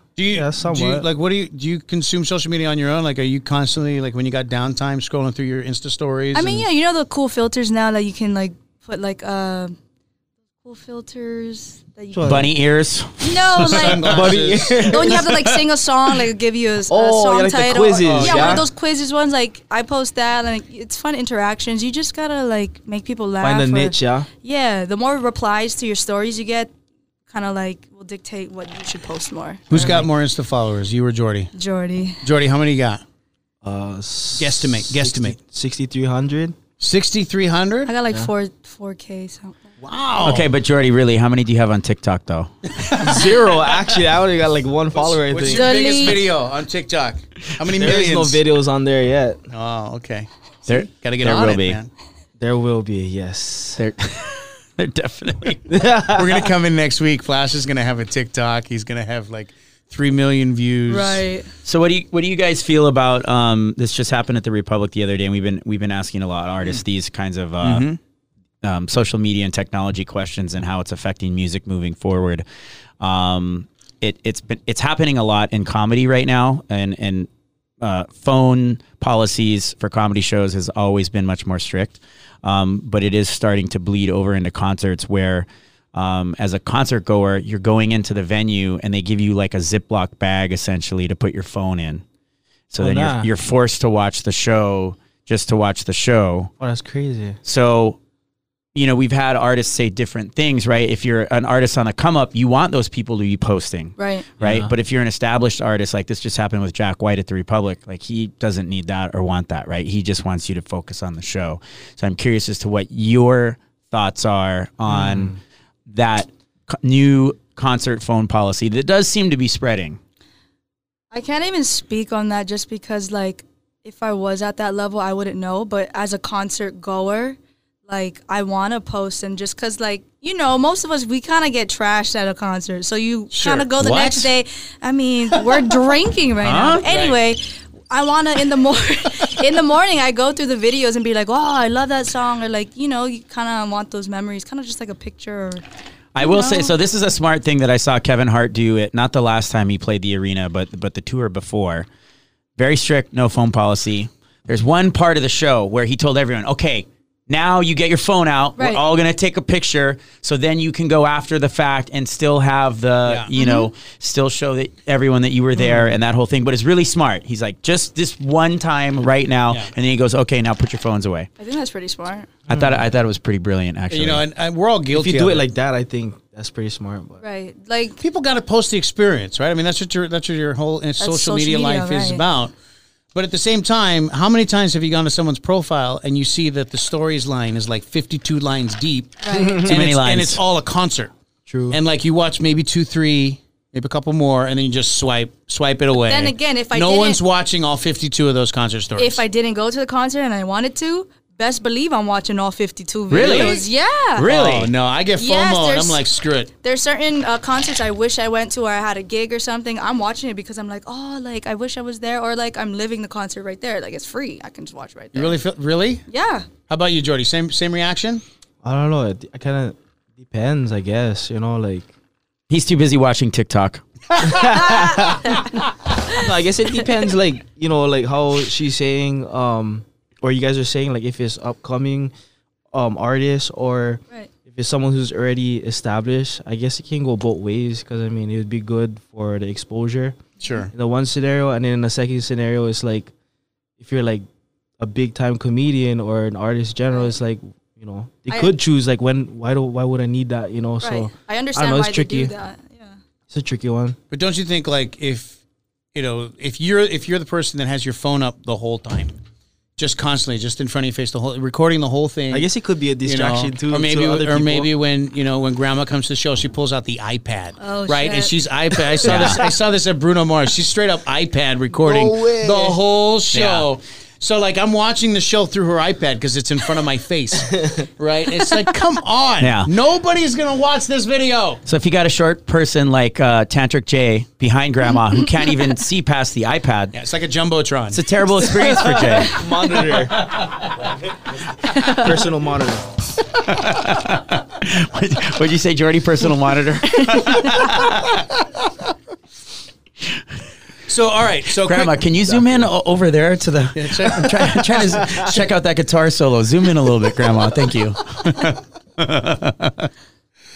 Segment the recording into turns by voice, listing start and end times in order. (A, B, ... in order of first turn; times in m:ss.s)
0:00.2-0:06.6 A
0:00.3-0:01.0 B
0:06.3-0:09.8 C
0:10.6-0:12.5 C
0:12.1-0:12.5 B
0:12.2-0:14.0 D
0:13.2-0:26.7 C
0:13.6-0:15.2 A
0:14.0-0:15.3 B
0:16.9-0:18.6 B
0:18.0-0:18.6 A
0:23.4-0:24.3 B
0:27.3-0:30.0 C
0:29.7-0:31.5 A
0:29.7-0:30.0 B
0:31.6-0:32.2 C
0:32.2-0:33.0 A
0:33.6-0:36.6 B
0:34.3-0:35.4 A
0:36.8-0:37.9 A
0:37.9-0:39.6 C
0:39.8-0:40.5 A
0:40.2-0:42.5 D
0:42.8-0:43.8 A
0:43.0-0:45.7 B
0:44.9-0:48.4 A
0:45.5-0:46.2 C
0:47.7-0:49.4 B
0:49.5-0:51.9 A
0:50.6-0:51.8 D
0:52.4-0:53.8 B
0:53.8-0:55.8 D
0:55.7-0:56.5 B
0:56.1-1:01.2 A
1:00.9-1:01.5 C
1:01.6-1:07.9 D
1:07.6-1:08.0 A
1:08.6-1:12.4 D
1:13.0-1:17.3 D
1:17.8-1:32.0 D
1:32.7-1:36.5 D
1:32.8-1:33.3 B
1:36.6-1:37.4 B
1:37.4-1:38.0 D
1:38.7-2:00.0 D
1:44.0-1:44.3 C
1:44.4-1:44.7 B
1:54.9-1:55.3 B
2:01.1-2:25.6 C
2:13.3-2:14.3 A
2:16.4-2:16.8 D
2:16.8-2:17.2 A
2:26.1-2:31.9 D
2:26.2-2:26.7 C
2:32.6-2:51.3 D
2:38.6-2:38.8 C
2:43.3-2:43.7 C
2:45.6-2:45.9 B
2:51.4-2:52.3 C
2:52.5-2:54.2 D
2:53.9-2:55.5 A
2:54.9-2:57.2 B
2:57.2-2:58.0 C
2:58.0-3:02.5 A
3:01.0-3:02.2 C
3:03.1-3:11.1 A
3:09.2-3:09.6 C
3:09.3-3:09.8 B
3:09.6-3:10.4 D
3:11.5-3:11.8 B
3:11.7-3:19.2 A
3:15.9-3:17.2 C
3:19.0-3:24.3 C
3:23.1-3:23.6 D
3:23.1-3:23.6 A
3:24.2-3:24.7 D
3:24.2-3:26.5 A
3:25.2-3:26.0 C
3:26.6-3:35.4 C
3:35.1-3:36.0 A
3:36.1-3:36.5 C
3:36.7-3:38.2 A
3:38.6-3:41.9 B
3:42.5-3:43.8 D
3:44.2-3:45.4 B
3:44.3-3:45.5 C
3:46.1-3:52.1 B
3:52.7-4:00.2 B
4:00.4-4:00.7 A
4:00.7-4:03.1 B
4:03.8-4:04.2 B
4:04.8-4:12.3 B
4:08.3-4:08.5 C
4:10.8-4:13.0 C
4:13.3-4:14.0 B
4:14.1-4:15.4 A
4:15.9-4:19.1 A
4:19.8-4:22.5 A
4:22.3-4:24.7 B
4:23.0-4:41.6 A
4:27.6-4:28.3 C
4:29.0-4:29.4 D
4:29.0-4:29.4 B
4:31.8-4:32.8 B
4:33.3-4:33.7 D
4:39.4-4:39.7 D
4:41.6-4:47.0 D
4:46.9-4:48.0 A
4:47.9-4:49.4 D
4:49.1-4:50.3 B
4:51.7-4:52.1 C
4:51.8-4:52.9 B
4:53.4-4:58.2 D
4:57.1-4:57.6 C
5:00.9-5:02.0 A
5:01.6-5:09.9 D
5:02.3-5:02.7 B
5:03.7-5:05.5 A